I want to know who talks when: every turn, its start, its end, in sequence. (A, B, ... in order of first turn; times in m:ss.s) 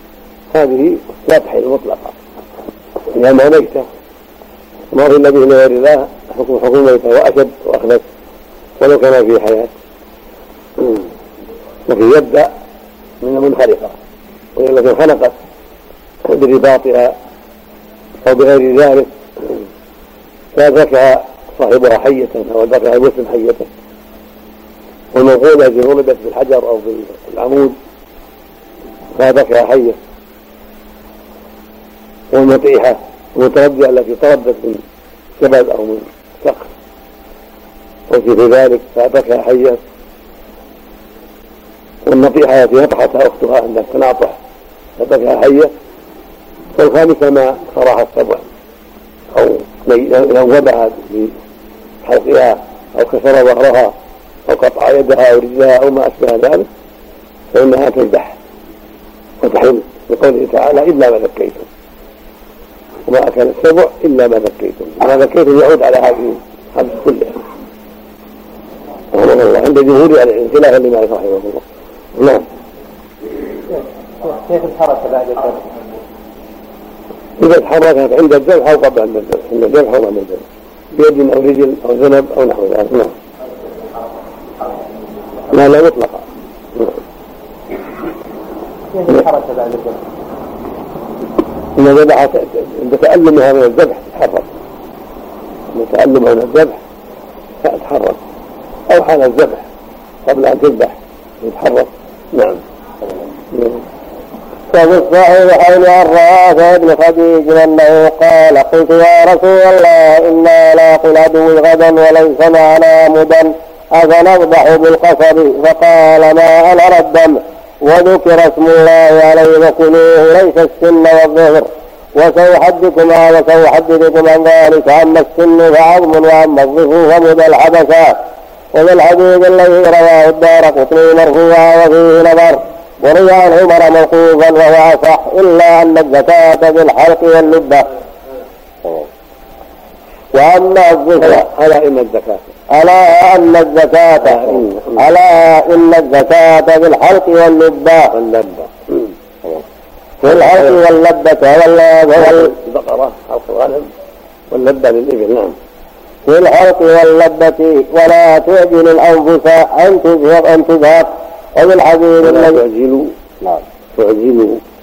0:00.5-0:02.2 A
0:03.1-0:03.9 A
0:04.9-0:08.0 A
0:08.8-0:09.7 A
0:11.9-0:12.5 A
0:13.2-0:14.0 A
0:14.6-0:15.3 A
0:16.3-0:17.1 A
0:18.2-0:19.6 A
0:20.5-0:23.7 A
0:25.1-0:27.8 A
0:29.1-0:30.0 A
0:32.3-0:34.8 A
0:35.4-0:36.7 A
0:38.1-0:39.8 A
0:42.0-0:44.4 A
0:45.0-0:45.7 A
0:46.8-0:48.4 A
0:49.3-0:51.3 A
0:52.0-0:54.0 A
0:54.5-0:56.7 A
0:57.5-0:58.4 A
0:59.4-1:01.7 A
1:03.1-1:07.4 A
1:09.1-1:11.6 A
1:12.2-1:12.4 A
1:14.2-1:15.6 B
1:17.4-1:23.2 A
1:25.5-1:27.0 A
1:28.9-1:30.0 B
1:31.8-1:34.5 A
1:35.7-1:36.8 A
1:37.6-1:38.2 A
1:38.9-1:39.6 A
1:40.3-1:42.6 A
1:43.5-1:43.8 A
1:44.7-2:08.2 C
2:08.7-2:17.9 C
2:20.3-2:21.5 C
2:21.2-2:22.4 A
2:22.7-2:28.1 C
2:24.2-2:25.0 A
2:28.1-2:28.9 A
2:30.2-2:30.8 A
2:30.2-2:32.5 C
2:32.2-2:33.9 A
2:34.5-2:35.6 A
2:36.3-2:42.6 C
2:42.2-2:43.2 A
2:44.0-2:44.6 A